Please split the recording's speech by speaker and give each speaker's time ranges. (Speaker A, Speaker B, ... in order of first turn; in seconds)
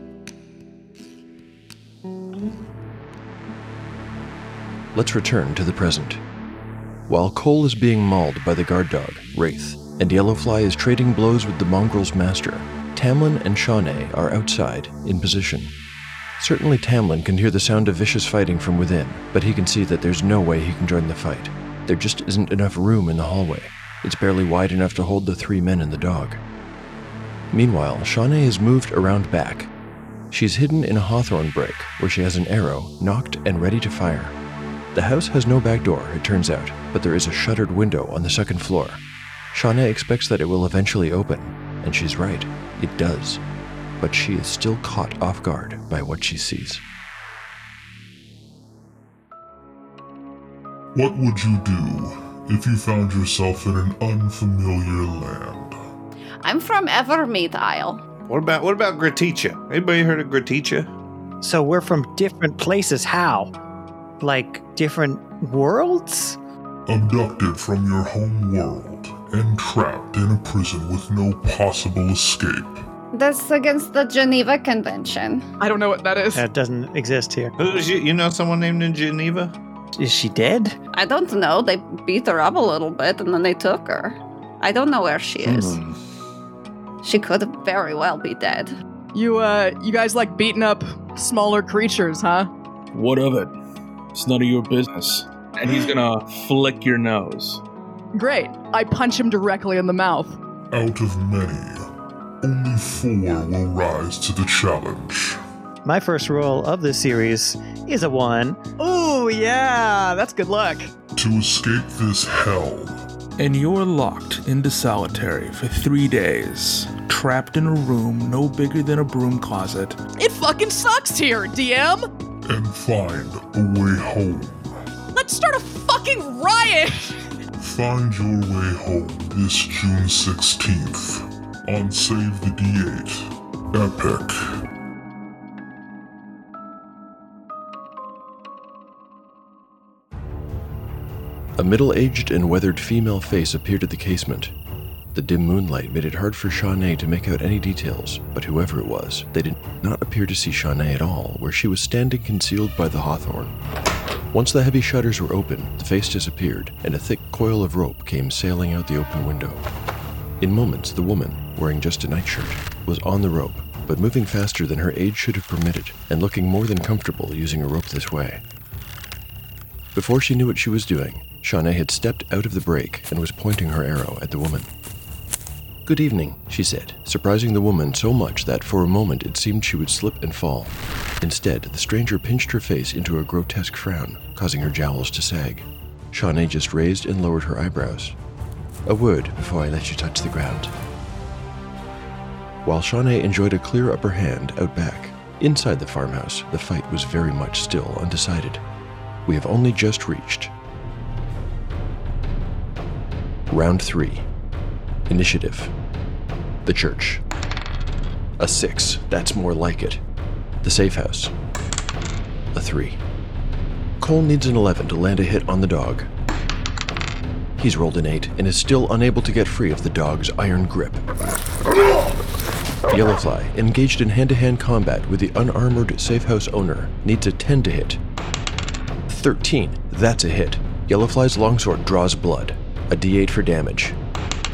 Speaker A: 4.9-6.2, 7.1-15.7, 16.4-26.4, 27.5-29.7, 30.3-34.4, 34.9-43.4, 44.0-46.8, 141.6-144.5, 145.1-153.6, 154.3-159.7, 160.4-168.4, 169.9-174.7, 175.9-188.2, 188.9-190.7, 192.7-198.6, 199.3-200.5, 203.5-204.3, 205.1-205.7, 206.7-207.2, 208.4-210.0, 210.6-211.3, 212.5-213.0, 214.0-216.1, 217.6-221.1, 222.9-228.0, 229.1-234.0
Speaker B: 51.0-55.8, 66.9-72.8, 100.7-101.9, 102.4-105.4, 111.2-113.1, 122.5-124.7, 127.6-134.6
Speaker C: 56.4-58.0, 73.1-75.4, 80.9-85.8, 87.0-88.8
Speaker D: 58.3-60.9, 77.6-79.5, 85.5-85.9
Speaker E: 61.4-63.5, 64.2-66.4, 76.3-77.5, 80.0-80.8, 105.8-108.6
Speaker F: 75.6-76.4, 89.1-92.5, 98.2-100.4, 108.8-110.9, 120.2-122.1, 125.1-127.2
Speaker G: 92.9-93.5, 94.1-97.6, 113.4-120.0